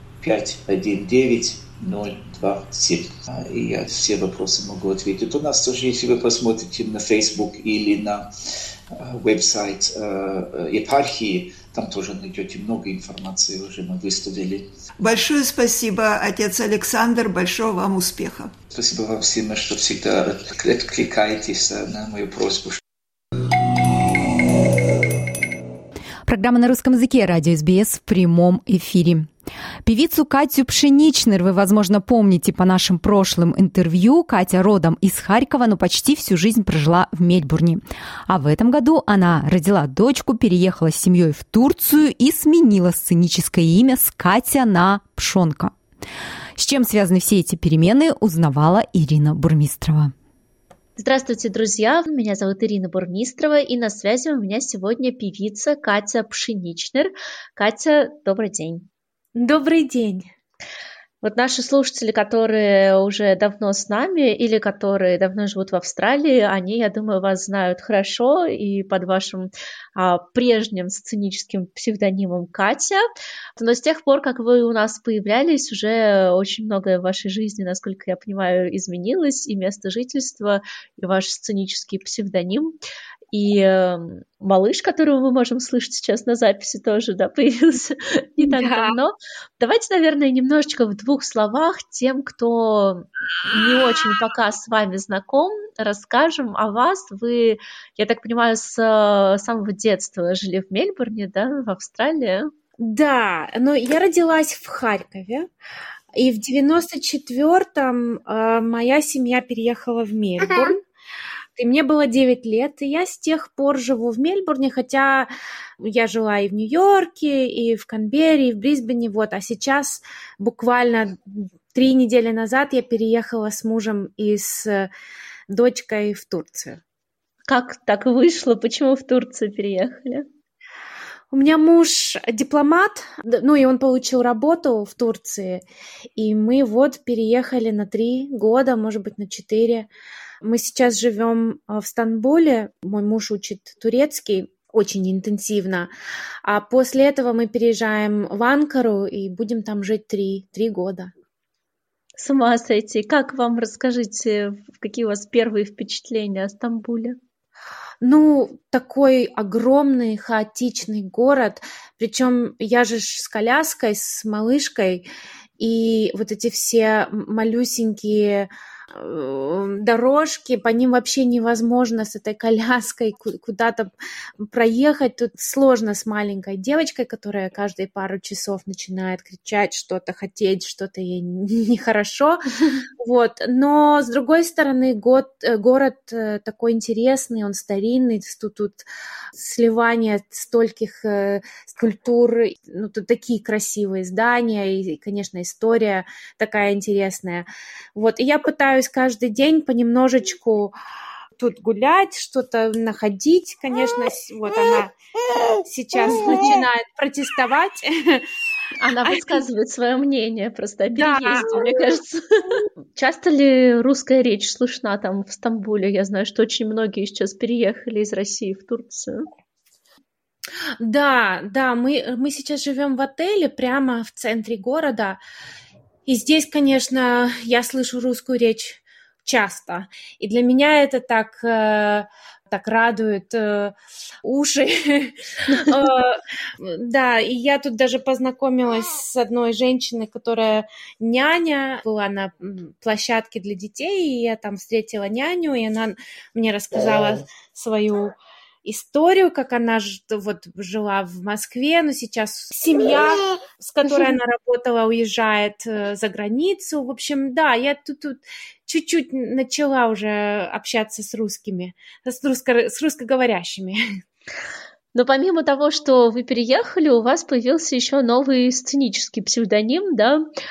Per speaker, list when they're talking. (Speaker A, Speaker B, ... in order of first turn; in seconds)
Speaker A: 0.2-8.3, 8.9-14.7, 18.7-22.8
Speaker B: 15.0-18.5
Speaker C: 26.3-29.3, 29.9-45.7, 46.6-50.1
Speaker D: 51.0-58.9, 61.2-73.0, 73.6-82.8, 83.3-102.5, 127.5-130.3, 152.2-157.2, 208.8-219.3, 264.9-270.3
Speaker E: 59.4-60.3, 88.4-88.9, 102.8-105.5, 106.2-110.8, 111.6-124.9, 125.5-126.8, 131.3-135.6, 136.2-139.9, 140.4-145.9, 146.4-151.1, 158.0-165.1, 165.6-173.9, 174.4-182.4, 183.0-200.8, 201.3-204.9, 205.7-208.2, 209.1-209.4, 210.9-211.8, 220.8-225.2, 226.1-263.8